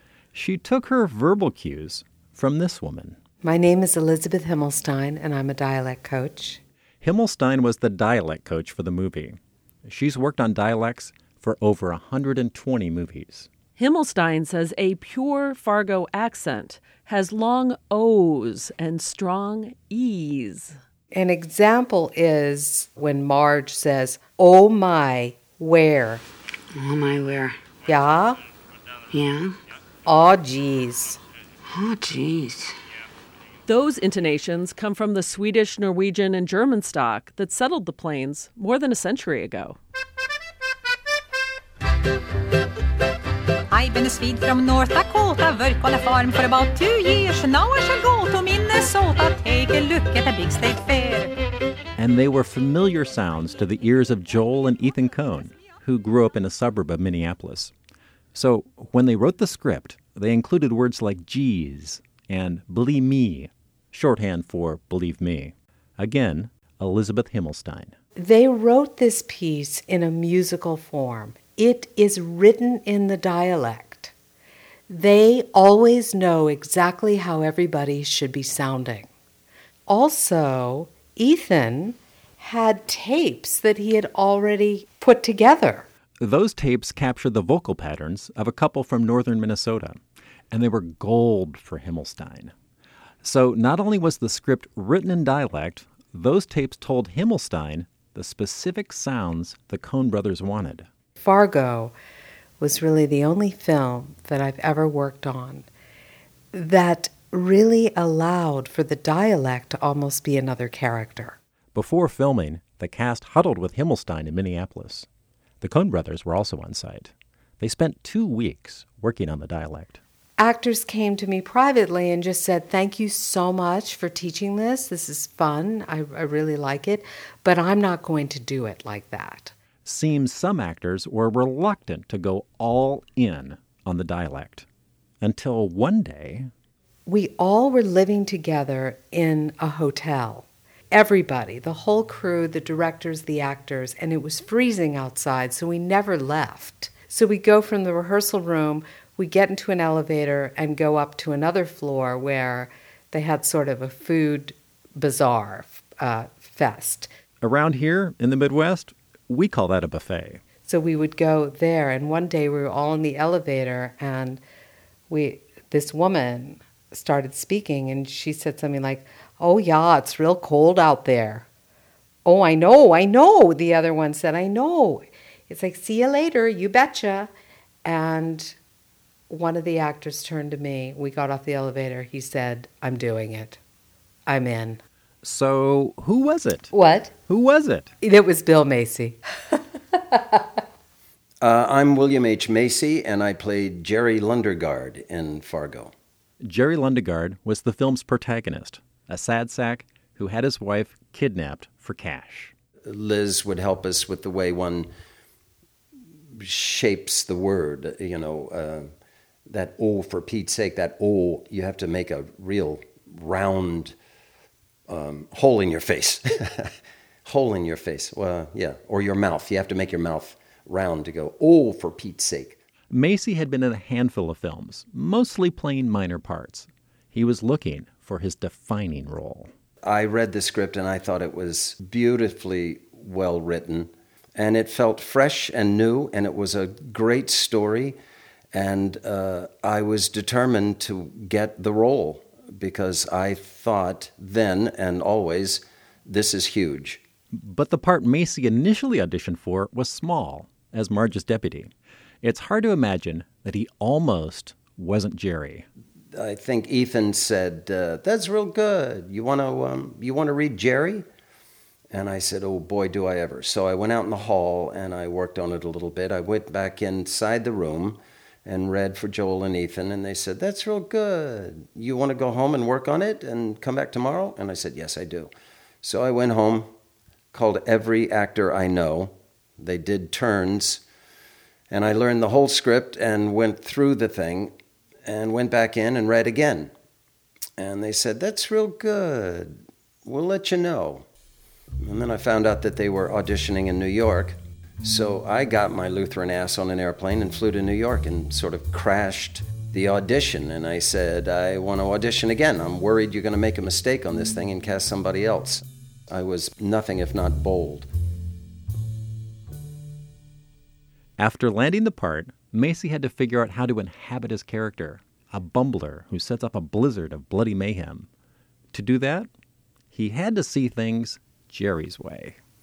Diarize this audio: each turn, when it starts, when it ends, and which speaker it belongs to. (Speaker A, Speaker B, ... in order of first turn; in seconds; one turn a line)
Speaker A: 0.3-3.2
Speaker B: 3.4-6.6
Speaker A: 7.0-13.5
Speaker C: 13.8-20.8
Speaker B: 21.1-26.2
Speaker D: 26.7-27.6
Speaker B: 27.9-28.4
Speaker D: 29.1-29.6
Speaker B: 30.1-31.2
Speaker D: 31.7-32.8
Speaker C: 33.7-39.8
Speaker E: 43.7-51.3
Speaker A: 52.0-57.7
Speaker A: 58.3-68.0
Speaker B: 68.2-74.1
Speaker B: 74.9-79.1
Speaker B: 79.9-85.9
Speaker A: 86.2-92.5
Speaker A: 93.2-100.9
Speaker B: 101.2-102.0
Speaker B: 102.6-105.7
Speaker B: 106.5-111.4
Speaker A: 111.8-115.1
Speaker A: 115.6-120.0
Speaker B: 120.4-129.5
Speaker A: 129.8-134.7
Speaker A: 135.2-136.5
Speaker B: 137.1-157.1
Speaker A: 157.4-160.4
Speaker B: 160.7-164.4
Speaker B: 165.1-171.5
Speaker B: 172.2-177.3
Speaker B: 177.8-178.6
Speaker B: 179.3-183.6
Speaker B: 184.3-184.8
Speaker A: 185.2-186.7
Speaker B: 186.7-187.2
Speaker A: 187.3-187.9
Speaker B: 188.0-189.2
Speaker B: 190.0-190.6
Speaker F: 191.4-195.9
Speaker A: 196.4-202.5
Speaker F: 202.9-204.9
Speaker F: 206.4-208.9
Speaker F: 209.5-213.9
Speaker F: 214.9-216.7
Speaker F: 217.3-222.6
Speaker A: 222.9-229.5
Speaker F: 229.8-238.0
Speaker F: 238.5-247.0
Speaker A: 247.3-251.7
Speaker A: 252.2-255.7
Speaker F: 256.1-261.0
Speaker F: 261.9-275.3
Speaker F: 275.8-276.7
Speaker F: 277.3-280.8
Speaker F: 281.7-284.6
Speaker F: 285.1-286.7
Speaker F: 287.6-291.1
Speaker F: 291.8-307.9
Speaker A: 311.2-318.1
Speaker A: 318.7-319.3
Speaker A: 319.9-322.4